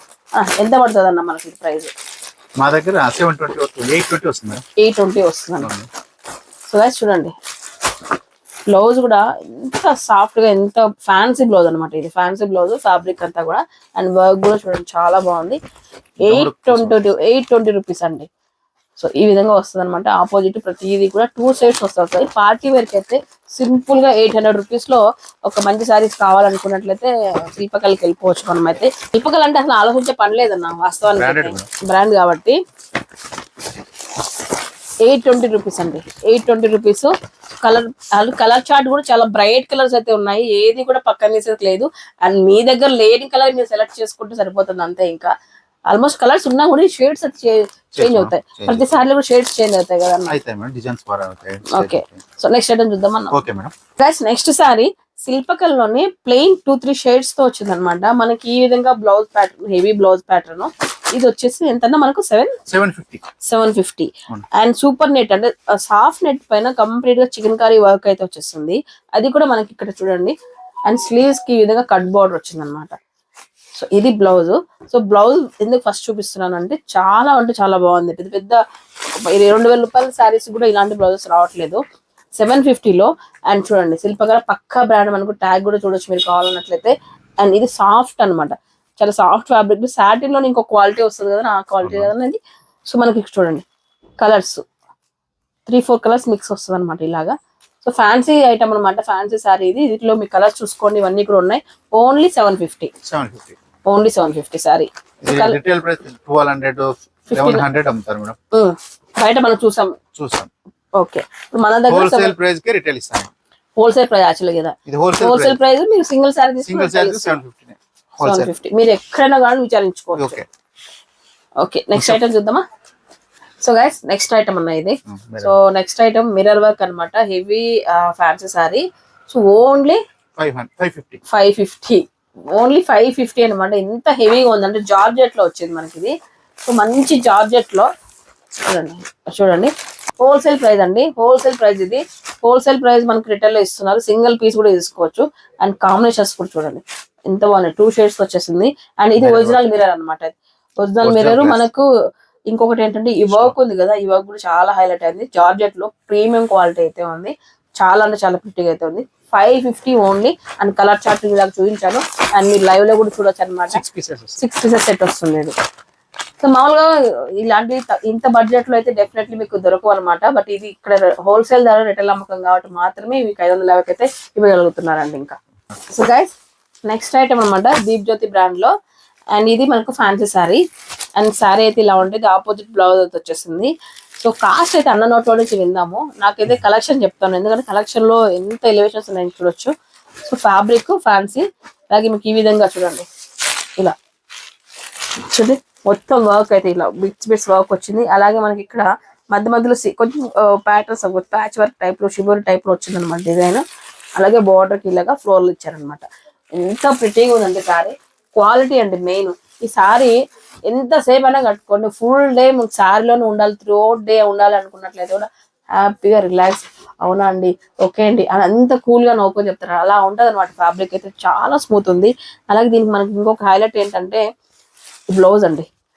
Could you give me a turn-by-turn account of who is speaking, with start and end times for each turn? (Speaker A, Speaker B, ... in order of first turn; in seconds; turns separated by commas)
Speaker A: 0.4-1.9, Speaker B: 2.6-4.6, Speaker A: 4.8-5.7, Speaker B: 5.6-5.9, Speaker A: 6.7-7.3, Speaker A: 8.7-15.6, Speaker B: 16.2-17.0, Speaker A: 16.2-18.3, Speaker A: 19.0-32.6, Speaker B: 31.1-31.7, Speaker A: 35.0-45.3, Speaker A: 45.9-50.4, Speaker B: 48.0-49.0, Speaker B: 50.3-52.2, Speaker A: 51.7-53.4, Speaker B: 53.3-53.7, Speaker A: 54.0-62.6, Speaker B: 62.7-63.2, Speaker A: 63.5-70.3, Speaker A: 70.9-73.0, Speaker A: 73.8-78.6, Speaker A: 79.1-81.8, Speaker A: 82.4-93.7, Speaker B: 91.8-92.1, Speaker A: 94.2-94.6, Speaker A: 95.7-102.9, Speaker B: 103.0-103.6, Speaker A: 103.9-105.6, Speaker B: 105.2-108.4, Speaker A: 107.3-107.7, Speaker A: 108.5-110.0, Speaker B: 110.2-110.5, Speaker A: 111.0-112.3, Speaker B: 111.9-113.3, Speaker A: 113.8-117.4, Speaker B: 114.9-115.6, Speaker B: 116.7-118.5, Speaker A: 118.2-120.4, Speaker B: 120.2-120.5, Speaker A: 121.6-122.6, Speaker B: 121.9-122.2, Speaker A: 123.6-130.0, Speaker B: 125.1-125.6, Speaker B: 130.4-131.2, Speaker A: 131.3-136.2, Speaker A: 136.7-137.9, Speaker A: 138.7-151.9, Speaker B: 149.2-149.8, Speaker B: 151.0-151.7, Speaker A: 152.5-163.8, Speaker B: 153.3-153.6, Speaker B: 163.7-164.4, Speaker A: 164.4-165.6, Speaker A: 166.4-175.4, Speaker A: 175.9-176.3, Speaker A: 176.9-178.7, Speaker A: 179.3-180.6, Speaker A: 181.2-189.7, Speaker A: 190.3-193.1, Speaker A: 195.3-203.6, Speaker A: 204.2-206.1, Speaker A: 206.6-224.2, Speaker A: 225.1-225.7